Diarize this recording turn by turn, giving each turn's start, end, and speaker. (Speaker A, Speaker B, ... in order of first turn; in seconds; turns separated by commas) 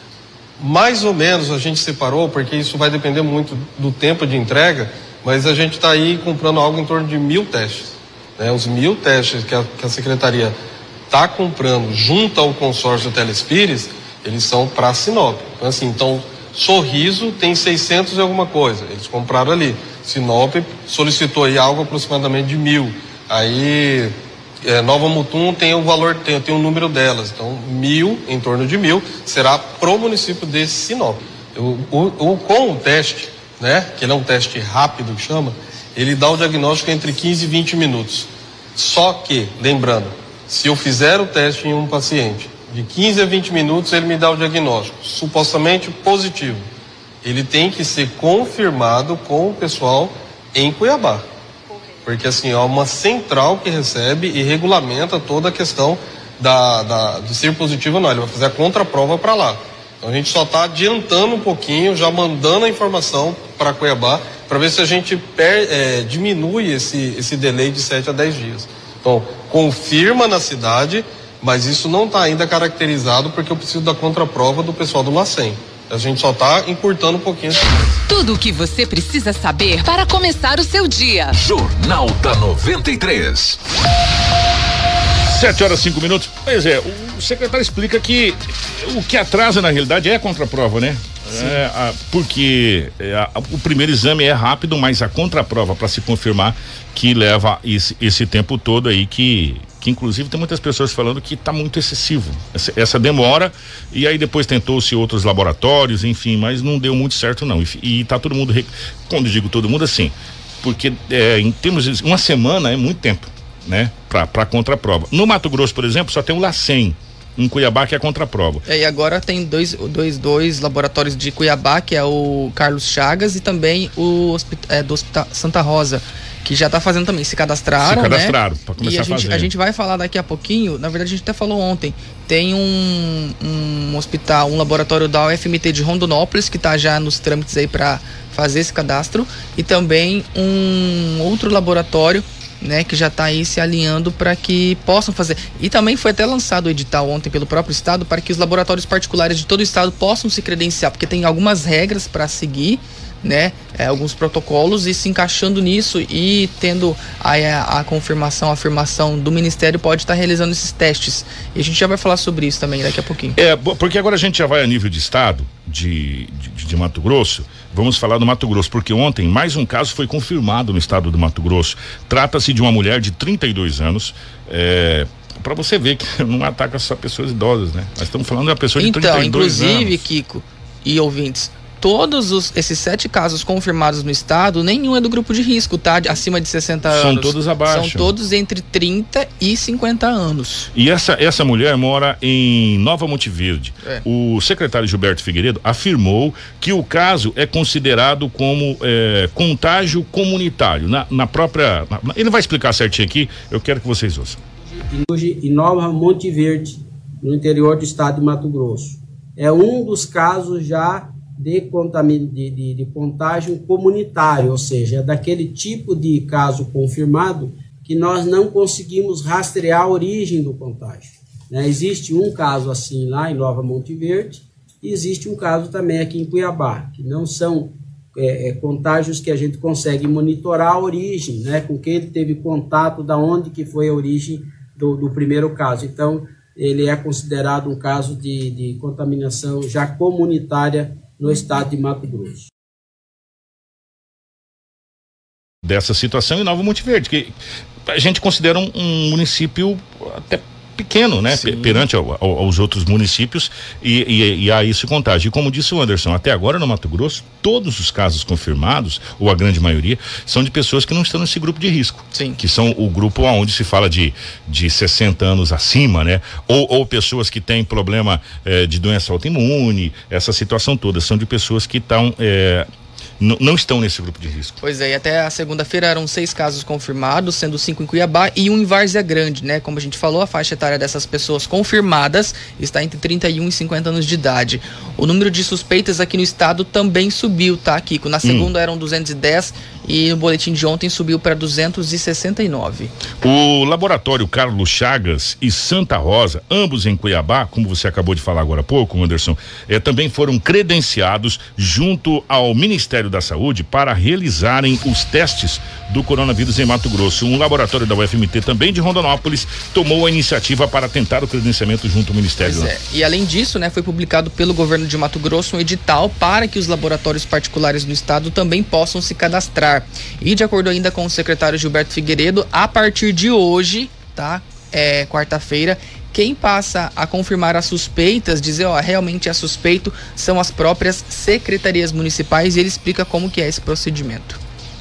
Speaker A: 0.6-10.6, Speaker A: 11.1-46.6, Speaker A: 47.2-51.2, Speaker A: 52.0-77.6, Speaker B: 78.1-81.3, Speaker C: 81.3-83.6, Speaker D: 85.3-118.7, Speaker E: 118.7-163.4, Speaker D: 127.8-129.5, Speaker D: 163.4-180.1, Speaker E: 178.8-190.7, Speaker D: 186.9-188.1, Speaker D: 190.7-204.4, Speaker F: 204.9-242.5, Speaker D: 245.6-247.4, Speaker D: 247.9-272.7, Speaker E: 251.3-251.8, Speaker E: 262.1-262.4, Speaker D: 273.2-274.6, Speaker E: 274.6-292.9, Speaker D: 288.2-288.5, Speaker D: 293.2-312.7, Speaker E: 312.4-334.4